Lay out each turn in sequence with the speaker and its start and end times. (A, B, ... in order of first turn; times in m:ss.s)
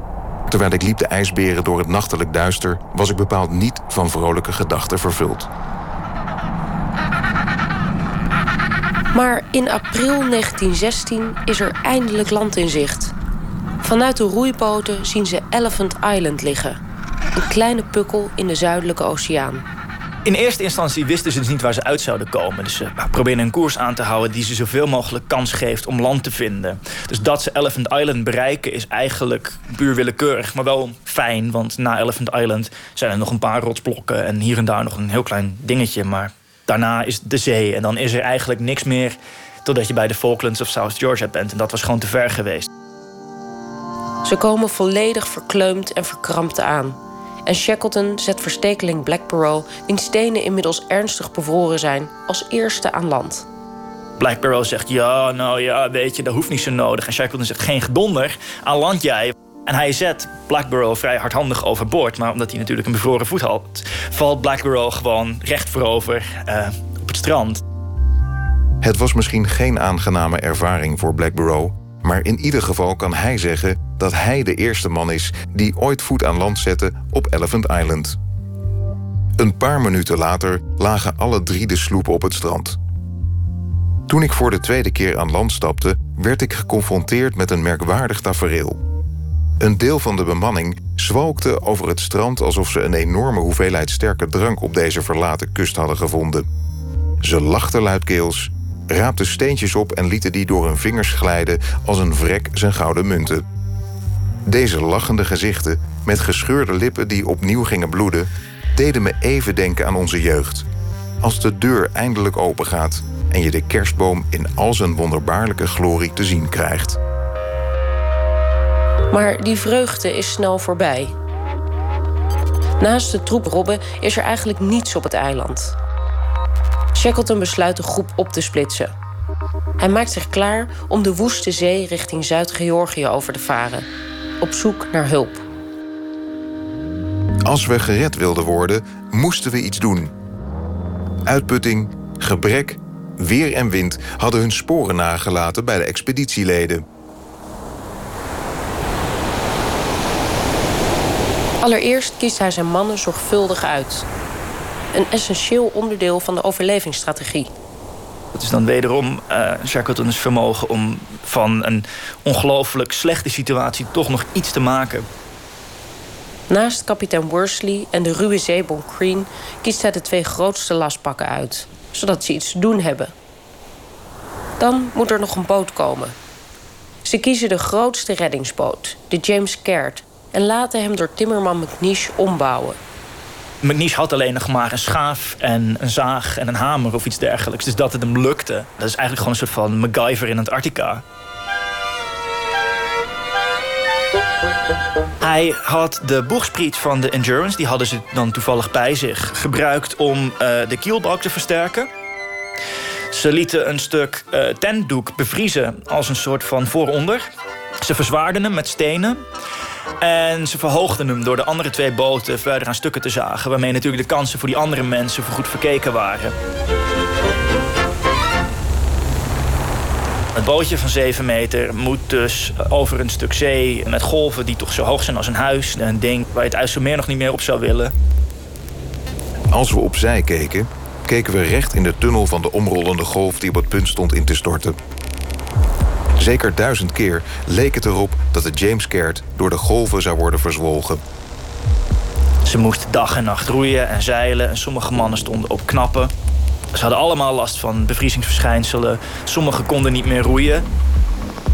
0:00.5-0:05.5 A
0:09.1-0:13.1 B
0:13.8-0:16.8 B
0:17.4-0:19.6 B
0:20.2-0:42.7 C
0:44.2-0:53.4 B
0:54.2-1:07.6 C
1:08.8-1:18.2 A
1:19.4-1:22.8 A
1:24.1-1:28.8 A
1:29.6-1:36.4 A
1:37.2-1:43.4 A
1:44.4-1:50.6 A
1:51.2-1:57.0 A
1:59.1-2:01.1 B
2:02.8-2:05.7 B
2:06.9-2:08.9 B
2:09.8-2:13.8 B
2:14.4-2:15.4 B
2:17.4-2:20.1 A
2:21.2-2:26.8 A
2:31.6-2:34.1 B
2:34.9-2:37.5 B
2:38.3-2:45.1 C
2:46.5-2:53.1 B
2:54.6-2:56.1 B
2:57.0-3:02.8 B
3:03.6-3:11.0 C
3:15.2-3:21.9 C
3:23.1-3:27.2 C
3:27.8-3:29.2 C
3:30.0-3:36.4 C
3:40.3-3:47.9 C
3:49.5-3:54.8 A
3:56.2-4:01.0 A
4:02.4-4:06.1 C
4:06.7-4:10.6 C